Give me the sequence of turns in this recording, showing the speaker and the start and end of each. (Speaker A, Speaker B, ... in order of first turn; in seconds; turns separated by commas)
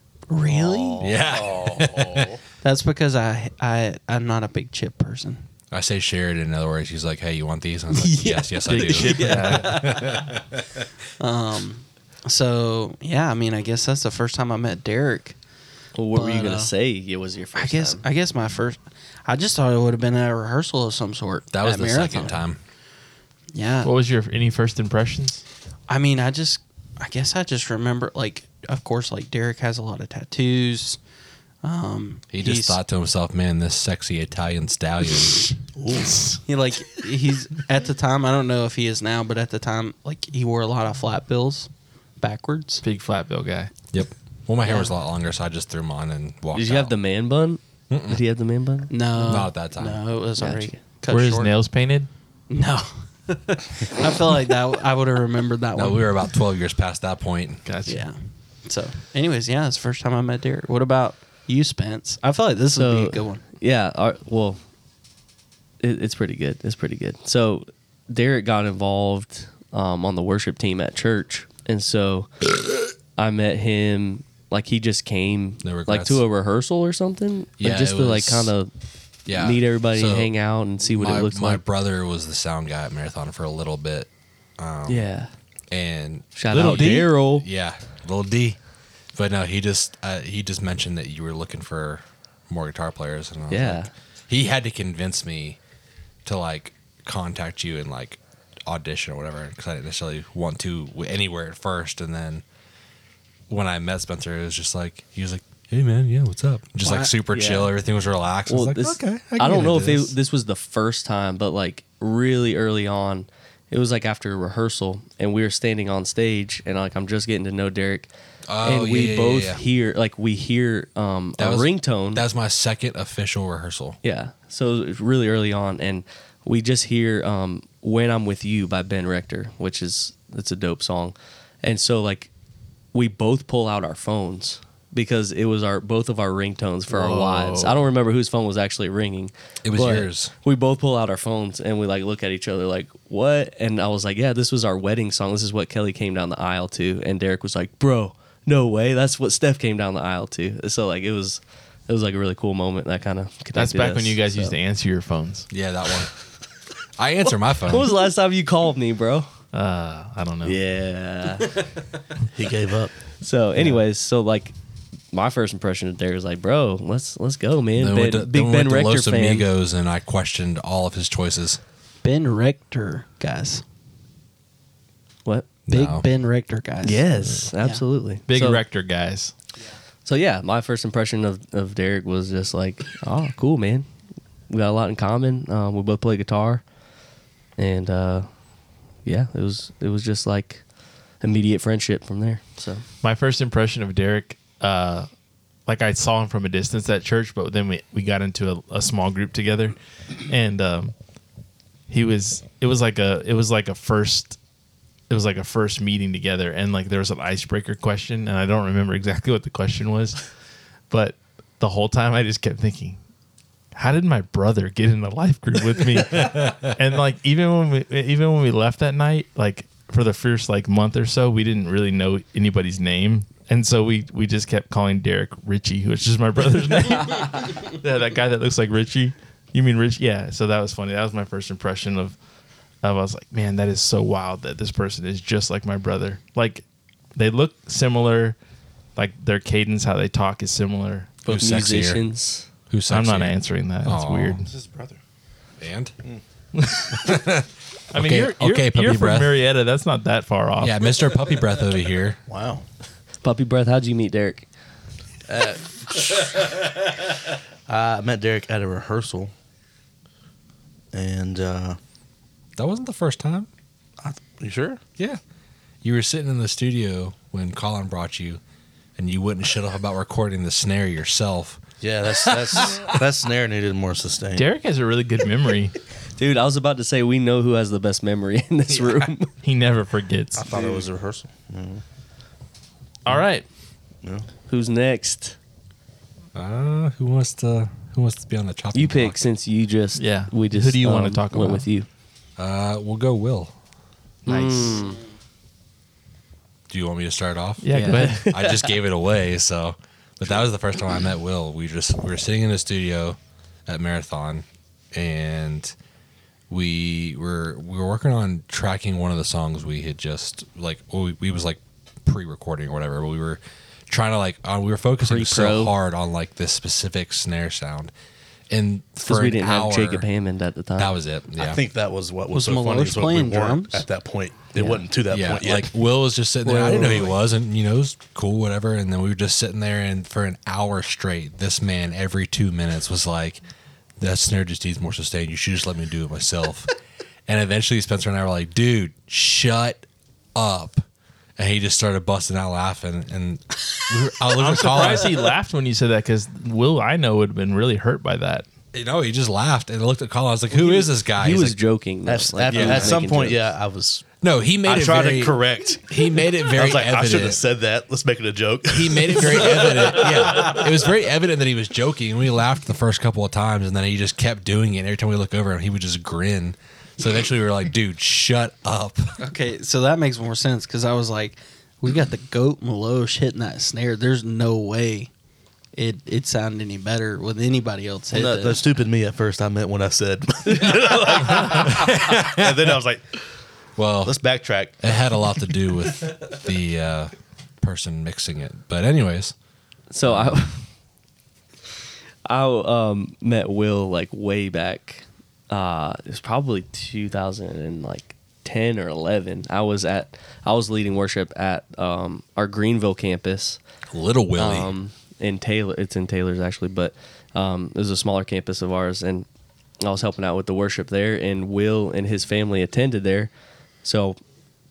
Speaker A: 0.3-1.1, Speaker B: 0.5-1.0, Speaker C: 1.0-2.3, Speaker D: 1.5-2.3, Speaker A: 2.6-5.4, Speaker C: 5.7-10.8, Speaker A: 7.9-10.4, Speaker E: 8.7-9.8, Speaker A: 11.2-15.4, Speaker B: 15.9-18.0, Speaker A: 16.1-16.7, Speaker A: 17.5-22.4, Speaker C: 21.5-22.6, Speaker A: 23.5-23.9, Speaker E: 23.8-25.4, Speaker A: 25.9-31.0, Speaker A: 31.6-32.8, Speaker C: 32.3-35.5, Speaker D: 35.8-36.4, Speaker A: 36.4-42.8, Speaker E: 42.8-43.7, Speaker C: 43.9-47.0, Speaker A: 44.6-44.9, Speaker B: 46.5-49.3, Speaker C: 47.9-48.2, Speaker A: 48.9-51.5, Speaker C: 49.2-50.0, Speaker B: 50.4-50.8, Speaker E: 51.1-52.1, Speaker A: 52.5-56.2, Speaker C: 55.7-57.6, Speaker E: 57.6-58.0, Speaker A: 57.9-63.4, Speaker B: 62.8-64.6, Speaker B: 65.8-72.4, Speaker B: 73.1-78.7, Speaker C: 75.6-76.2, Speaker C: 77.6-78.5, Speaker B: 79.3-81.6, Speaker C: 79.3-85.0, Speaker B: 84.9-85.3, Speaker C: 85.7-88.6, Speaker B: 86.3-87.4, Speaker C: 89.1-95.6, Speaker B: 93.5-93.9, Speaker C: 96.2-102.4, Speaker C: 103.5-110.1, Speaker A: 106.8-107.1, Speaker B: 107.3-107.7, Speaker B: 108.5-118.1, Speaker C: 118.5-119.6, Speaker B: 118.6-122.2, Speaker C: 121.4-124.0, Speaker B: 124.0-132.3, Speaker B: 132.9-154.6, Speaker E: 136.9-137.8, Speaker C: 139.6-140.3, Speaker E: 153.5-155.5, Speaker C: 155.5-156.1, Speaker C: 157.0-157.9, Speaker B: 157.7-159.3, Speaker E: 159.5-160.6, Speaker B: 160.4-161.5, Speaker D: 162.3-162.9, Speaker B: 163.2-164.5, Speaker B: 165.1-169.5, Speaker C: 167.8-171.6, Speaker A: 172.0-173.6, Speaker C: 175.7-176.1, Speaker A: 175.7-177.1, Speaker B: 176.8-178.6, Speaker E: 178.3-179.3, Speaker B: 180.0-183.9, Speaker B: 184.5-186.6, Speaker B: 187.6-188.3, Speaker B: 189.0-190.6, Speaker B: 191.2-192.8, Speaker E: 193.0-195.1, Speaker E: 195.7-200.9, Speaker E: 201.9-204.4, Speaker E: 205.1-210.3, Speaker E: 210.9-213.0, Speaker E: 213.7-232.1, Speaker C: 216.2-216.4, Speaker E: 232.8-236.6, Speaker E: 237.2-238.3, Speaker E: 238.9-241.1, Speaker C: 241.2-242.0, Speaker B: 241.2-242.5, Speaker C: 242.7-244.4, Speaker E: 242.9-244.5, Speaker D: 244.4-245.0, Speaker C: 245.6-245.9, Speaker E: 246.6-247.2, Speaker C: 246.9-249.4, Speaker E: 247.9-250.9, Speaker C: 250.6-252.2, Speaker D: 252.3-252.6, Speaker B: 253.2-254.5, Speaker D: 255.3-256.7, Speaker D: 257.7-259.3, Speaker D: 260.9-261.8, Speaker C: 262.6-263.5, Speaker D: 264.0-264.8, Speaker C: 265.8-268.4, Speaker C: 269.0-272.9, Speaker D: 271.8-274.5, Speaker E: 274.3-275.7, Speaker B: 276.2-279.3, Speaker C: 278.7-279.1, Speaker E: 279.4-280.4, Speaker D: 280.3-281.8, Speaker B: 280.5-280.8, Speaker E: 283.0-283.4, Speaker B: 284.5-285.4, Speaker C: 286.3-289.3, Speaker B: 288.7-291.9, Speaker E: 289.9-291.7, Speaker C: 292.4-293.5, Speaker E: 294.2-294.9, Speaker B: 294.3-295.0, Speaker C: 296.7-305.7, Speaker E: 297.6-298.4, Speaker B: 297.7-298.7, Speaker C: 306.5-317.9, Speaker B: 315.0-315.7, Speaker C: 318.5-320.1, Speaker B: 319.0-320.9, Speaker C: 320.8-321.6, Speaker D: 321.4-325.7, Speaker A: 322.3-323.9, Speaker B: 324.5-324.8, Speaker C: 325.1-333.4, Speaker B: 326.4-327.1, Speaker D: 326.7-327.0, Speaker C: 334.0-336.7, Speaker C: 337.3-340.8, Speaker C: 341.4-345.1, Speaker E: 344.4-348.4, Speaker C: 348.7-351.6, Speaker B: 351.1-353.4, Speaker D: 352.1-354.1, Speaker C: 352.5-353.0, Speaker C: 354.2-357.4, Speaker D: 354.6-355.9, Speaker D: 356.5-360.5, Speaker C: 358.7-369.2, Speaker A: 369.2-375.1, Speaker A: 375.7-378.6, Speaker D: 378.1-383.0, Speaker C: 381.5-382.6, Speaker C: 383.8-384.2, Speaker D: 384.0-384.8, Speaker C: 384.8-389.3, Speaker B: 389.9-390.6, Speaker C: 390.0-390.4, Speaker B: 392.2-403.6, Speaker C: 403.9-404.7, Speaker B: 404.4-409.3, Speaker B: 409.8-413.3, Speaker B: 413.8-414.2